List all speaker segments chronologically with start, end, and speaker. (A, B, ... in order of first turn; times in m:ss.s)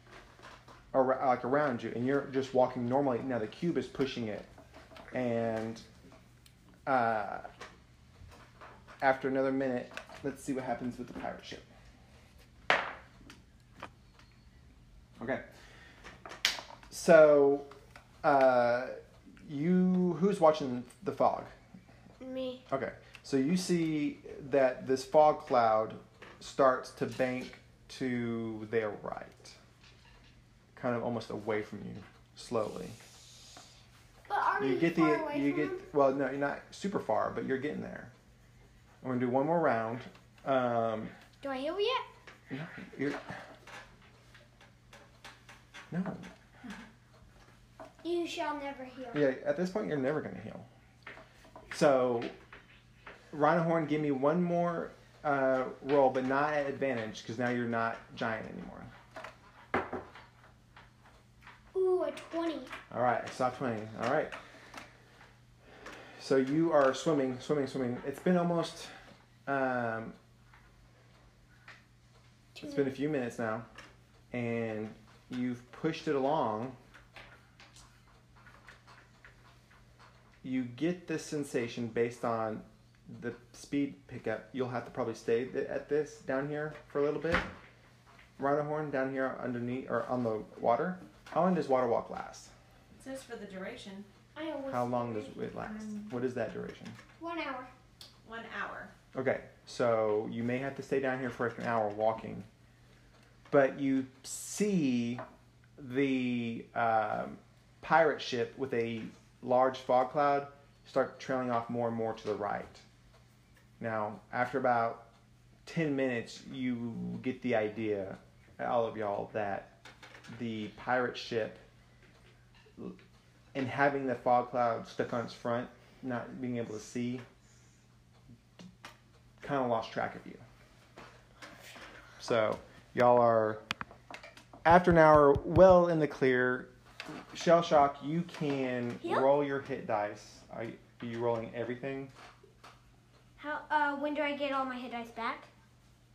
0:00.9-0:04.5 A
0:05.1-0:05.8 A
0:06.8-0:07.5 A
0:09.0-0:11.6 A
0:15.2-0:15.4 A
0:16.9-0:17.7 A
0:18.2-0:21.5 A
0:22.2-0:22.6 B
0:22.7-0:29.6 A
0:30.7-0:33.0 A
0:34.3-0:35.8 C
0:34.6-0:38.1 A
0:39.0-0:41.1 A
0:41.4-0:42.0 B
0:42.5-0:43.4 A
0:45.9-0:46.3 A
0:48.0-0:49.3 C
0:49.1-0:50.7 A
0:51.7-0:52.3 A
0:53.3-0:58.9 A
1:01.7-1:02.7 C
1:02.9-1:04.3 A
1:06.2-1:08.9 A
1:09.4-1:10.2 A
1:12.6-1:13.6 A
1:14.3-1:16.8 A
1:20.4-1:27.5 A
1:28.4-1:32.5 A
1:33.0-1:34.1 D
1:34.4-1:35.4 C
1:34.7-1:37.0 A
1:35.6-1:36.1 D
1:37.2-1:37.7 C
1:38.2-1:38.9 D
1:39.1-1:42.5 A
1:43.5-1:45.2 A
1:45.8-1:52.8 A
1:53.8-1:55.1 A
1:55.6-1:59.7 A
2:00.3-2:01.6 A
2:03.5-2:07.2 A
2:09.4-2:10.4 A
2:12.2-2:13.6 A
2:14.6-2:22.1 A
2:19.0-2:19.3 B
2:23.4-2:25.5 B